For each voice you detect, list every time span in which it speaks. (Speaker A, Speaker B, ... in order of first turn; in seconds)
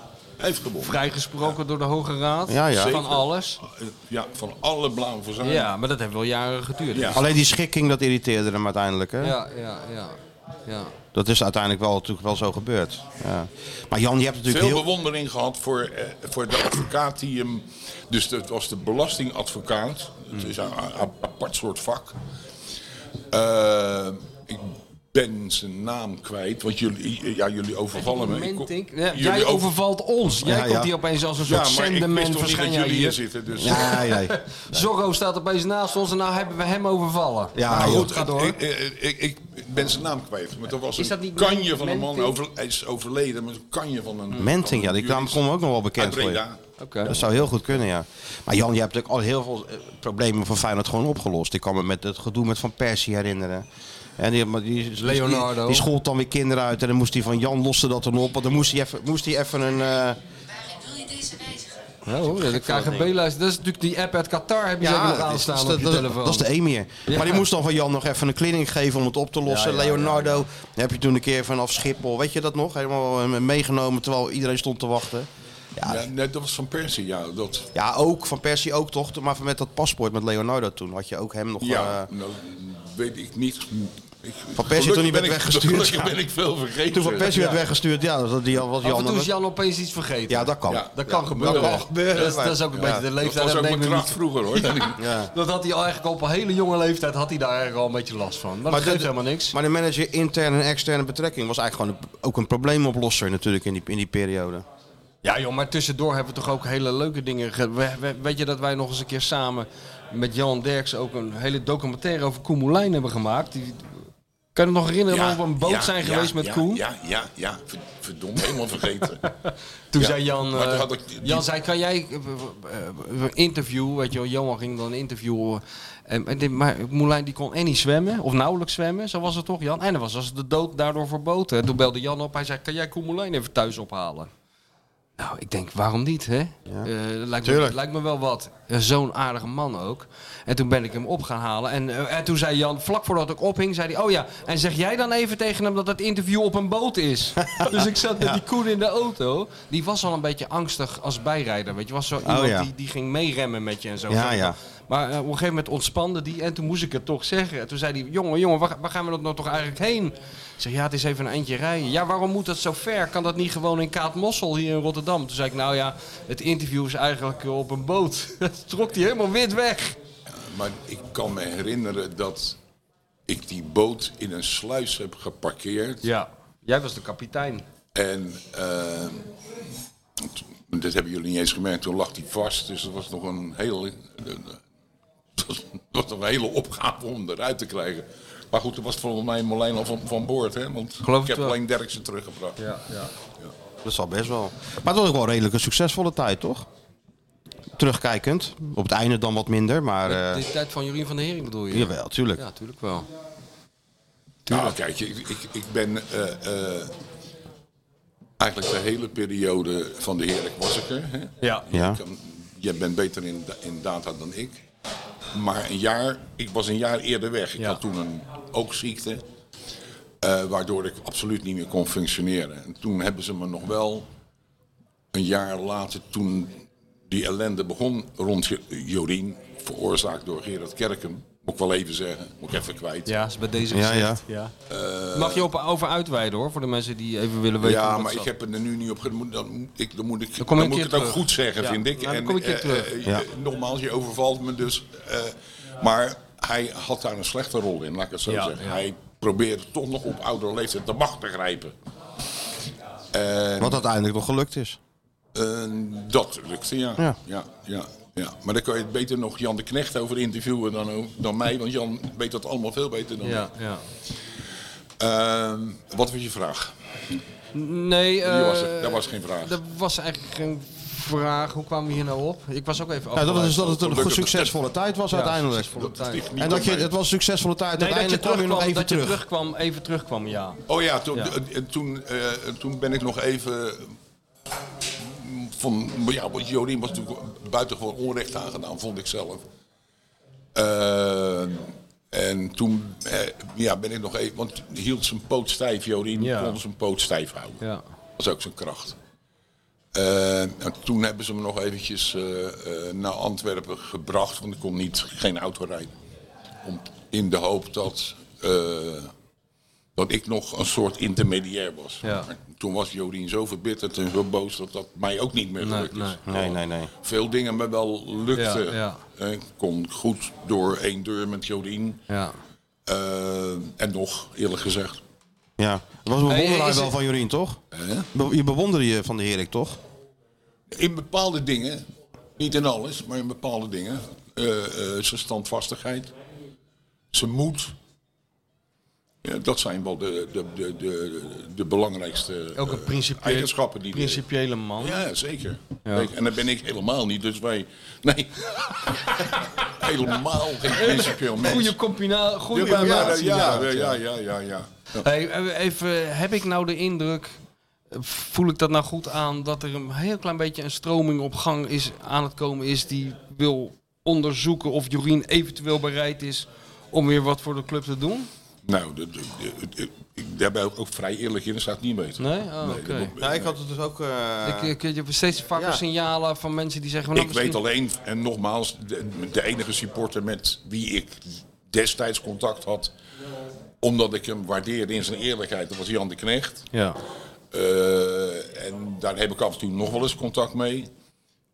Speaker A: 0.4-1.5, 2.7-5.7, 6.9-7.2, 14.5-22.2, 23.3-29.7, 31.4-34.0, 37.6-45.4, 46.0-46.6, 75.8-77.7, 81.6-87.5, 90.7-95.0, 115.1-119.2, 120.0-121.5, 170.4-172.6, 173.3-176.1, 177.9-179.3, 180.2-184.6, 185.4-192.6, 204.5-206.9, 208.4-214.7, 215.3-219.2, 220.2-224.1, 225.1-233.1, 234.7-235.5, 237.6-251.7, 253.1-253.8, 255.3-263.4, 265.0-266.7, 268.2-269.6, 273.6-274.6, 275.7-276.9, 280.7-283.9, 285.0-289.4, 290.6-297.6, 298.2-299.0, 299.9-305.9, 306.6-309.1, 309.9-322.0, 322.9-325.0, 327.7-328.1, 330.7-331.9, 332.4-336.1, 337.1-337.7, 339.2-344.2, 344.8-351.8, 352.5-355.0, 368.6-373.5, 377.1-382.9, 383.8-386.7, 387.5-390.9
Speaker B: 0.8-3.6, 5.4-7.2, 9.2-10.9, 27.9-38.6, 41.0-42.4, 46.8-47.1, 55.0-55.9, 62.1-66.5, 67.1-67.4, 69.5-70.4, 87.2-87.6, 88.8-99.5, 105.2-113.9, 114.5-116.8, 119.3-134.3, 135.2-170.0, 176.0-177.7, 191.0-191.6, 192.6-193.1, 200.1-203.1, 204.5-204.8, 211.4-211.7, 233.1-234.5, 235.1-238.3, 240.4-242.9, 248.3-248.8, 263.2-263.8, 267.5-273.8, 275.1-276.3, 277.8-280.6, 296.2-296.6, 312.0-312.3, 315.6-316.2, 318.4-319.0, 322.1-322.4, 326.3-326.9, 342.6-345.0, 345.9-346.1, 350.8-354.0, 355.0-357.3, 357.9-368.3, 372.2-373.1, 374.4-377.6, 386.7-387.0
Speaker C: 2.5-3.0, 7.1-9.4, 11.1-14.9, 30.4-30.9, 33.6-34.9, 37.5-38.1, 44.4-46.4, 47.1-53.6, 54.2-60.2, 61.1-61.6, 62.2-63.1, 64.8-76.1, 77.7-82.1, 84.6-86.2, 86.9-89.3, 90.3-93.0, 95.0-95.3, 98.7-104.7, 137.4-137.8, 147.4-148.4, 152.2-152.7, 154.1-154.6, 193.8-196.7, 197.8-200.4, 201.7-202.4, 211.7-212.0, 233.7-234.2, 253.6-254.8, 273.1-275.8, 276.4-279.2, 316.3-316.9, 325.6-327.6, 328.1-329.8, 352.7-353.6, 373.2-374.7, 375.6-375.8